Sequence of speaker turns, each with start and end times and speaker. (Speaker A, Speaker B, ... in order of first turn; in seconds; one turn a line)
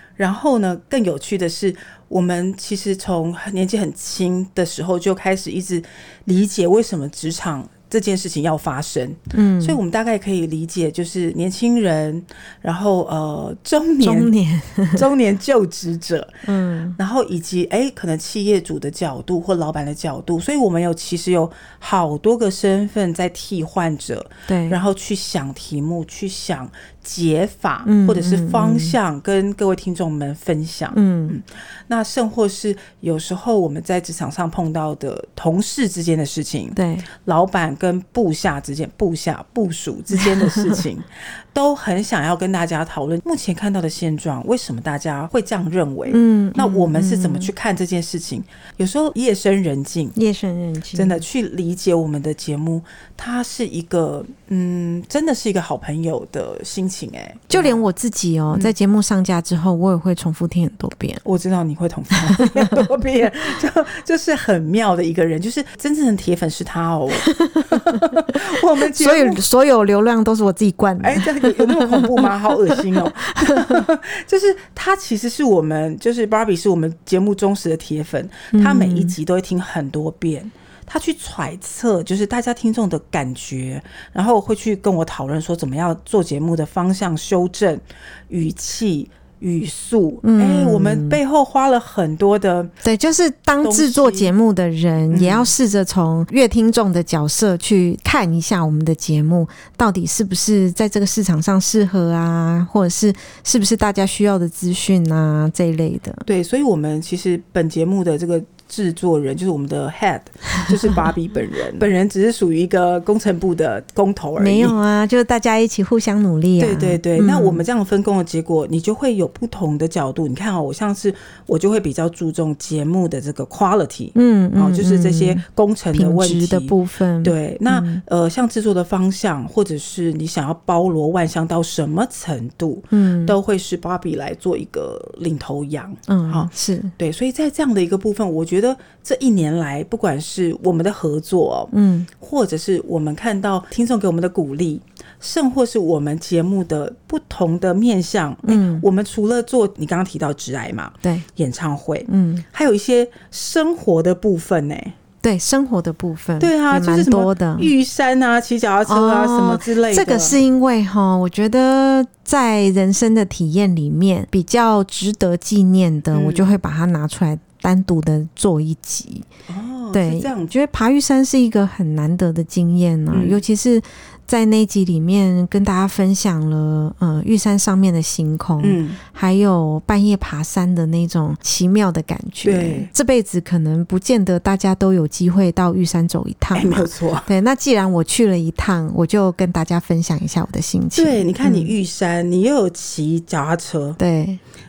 Speaker A: 0.2-14.3
Speaker B: 9.3-9.8
Speaker B: 14.0-15.1
Speaker A: 14.9-16.4
Speaker B: 16.4-17.0
Speaker A: 17.0-50.2
Speaker B: 24.5-24.8
Speaker B: 27.9-29.0
Speaker B: 30.9-31.4
Speaker B: 36.8-37.1
Speaker B: 40.2-40.8
Speaker B: 46.1-47.5
Speaker B: 50.2-51.2
Speaker A: 50.9-57.8
Speaker B: 57.5-61.2
Speaker A: 61.2-69.4
Speaker B: 62.4-62.8
Speaker B: 67.3-68.0
Speaker B: 68.9-73.8
Speaker A: 71.0-92.7
Speaker B: 78.5-79.2
Speaker B: 90.2-91.2
Speaker B: 92.8-106.3
Speaker A: 93.6-94.3
Speaker A: 95.1-95.5
Speaker A: 106.3-114.8
Speaker B: 114.4-117.7
Speaker A: 116.6-155.0
Speaker B: 124.2-128.0
Speaker B: 132.9-133.4
Speaker B: 136.1-136.9
Speaker B: 141.7-142.1
Speaker B: 148.4-148.8
Speaker B: 152.1-152.4
Speaker B: 155.2-157.7
Speaker A: 156.4-160.4
Speaker B: 158.9-169.3
Speaker A: 166.1-166.5
Speaker A: 169.5-170.5
Speaker B: 169.9-191.7
Speaker A: 173.1-173.4
Speaker A: 178.6-179.0
Speaker A: 182.4-182.9
Speaker A: 186.5-187.3
Speaker A: 190.9-194.0
Speaker B: 194.0-194.4